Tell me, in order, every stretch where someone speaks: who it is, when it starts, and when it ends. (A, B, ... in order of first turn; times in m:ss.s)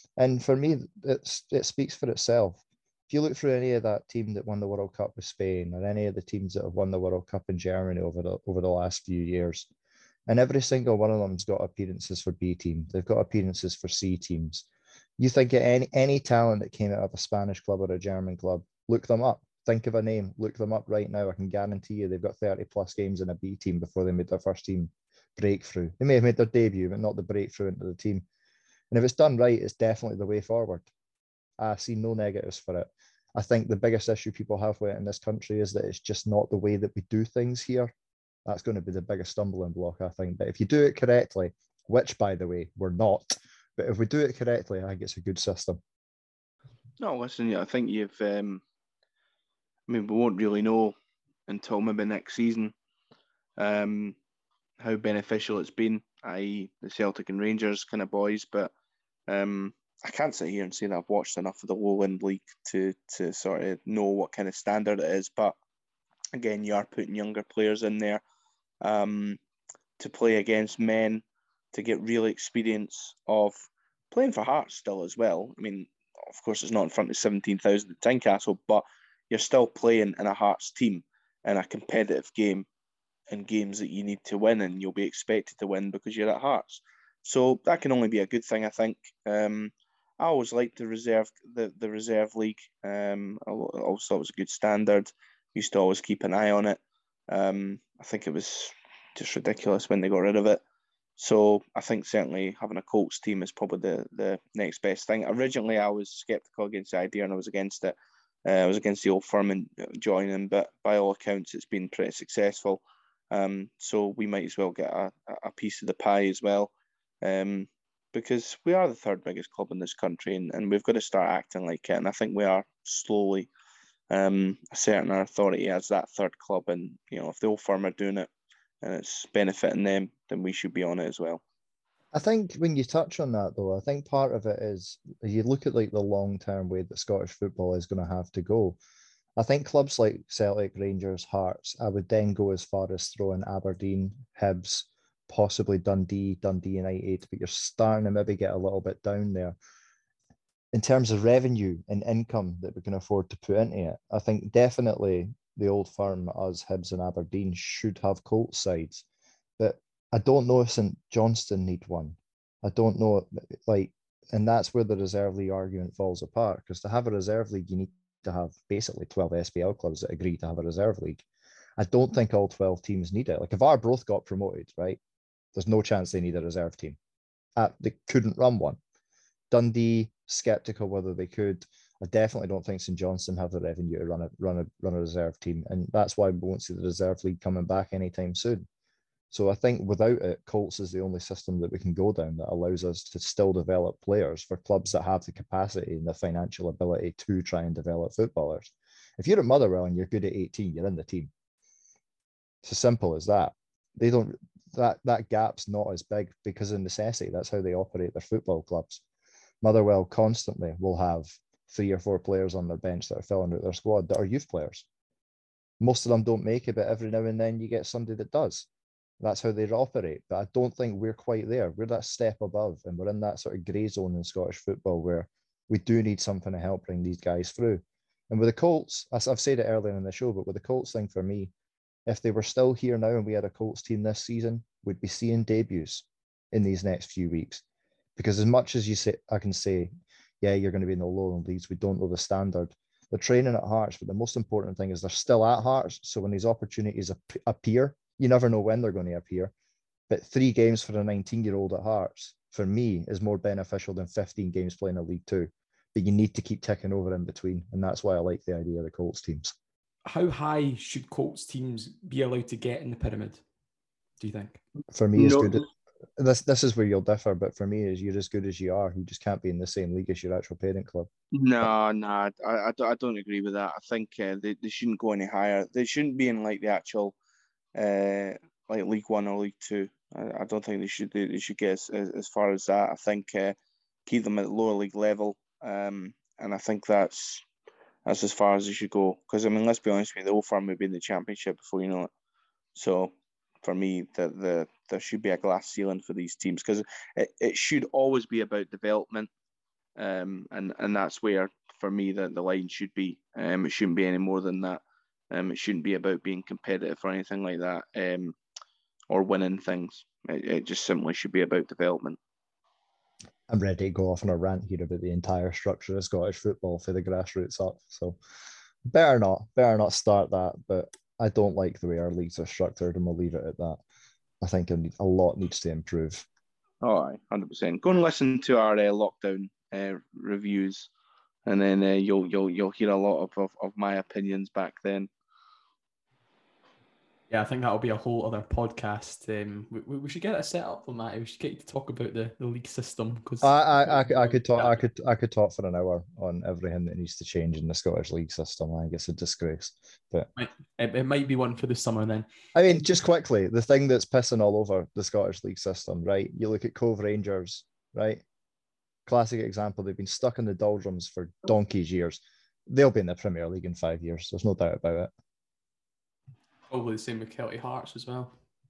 0:00.2-0:09.7 A
0:10.3-0:14.6 A
0:15.2-0:28.2 A
0:28.9-0:30.9 A
0:31.6-0:37.9 A
0:38.4-0:45.8 A
0:47.0-0:48.6 B
0:49.9-0:50.9 B
0:51.5-0:52.7 B
0:53.6-0:54.2 B
0:54.8-0:58.7 B
0:59.3-1:05.6 B
1:06.3-1:08.2 B
1:08.8-1:09.4 B
1:10.0-1:22.6 B
1:23.3-1:40.6 B
1:41.2-2:03.5 B
2:04.1-2:08.3 B
2:08.8-2:11.4 B
2:12.1-2:18.8 A
2:19.4-2:29.6 A
2:30.7-2:39.0 A
2:39.6-2:51.2 A
2:51.8-2:55.0 A
2:55.5-2:57.0 A
2:57.6-2:58.8 A
2:59.5-3:08.7 A
3:09.3-3:21.3 A
3:22.6-3:29.0 A
3:29.6-3:34.8 A
3:35.8-3:38.7 A
3:39.2-3:51.5 A
3:52.1-3:57.6 A
3:58.2-3:59.9 A
4:00.4-4:09.5 A
4:10.1-4:19.5 A
4:20.0-4:23.4 C
4:24.2-4:24.6 C
4:24.9-4:25.6 A
4:25.1-4:25.6 B
4:26.2-4:31.1 A
4:31.3-4:37.2 B
4:37.7-4:47.4 B
4:48.0-4:52.1 B
4:52.7-4:59.3 B
5:00.0-5:08.3 B
5:09.1-5:12.2 B
5:13.5-5:18.2 A
5:18.8-5:23.8 A
5:24.4-5:26.2 A
5:26.8-5:30.9 B
5:31.5-5:35.1 B
5:37.3-5:44.8 C
5:43.4-5:50.3 A
5:50.3-5:52.3 C
5:52.5-5:58.2 A
5:59.0-6:05.1 A
6:06.7-6:08.3 C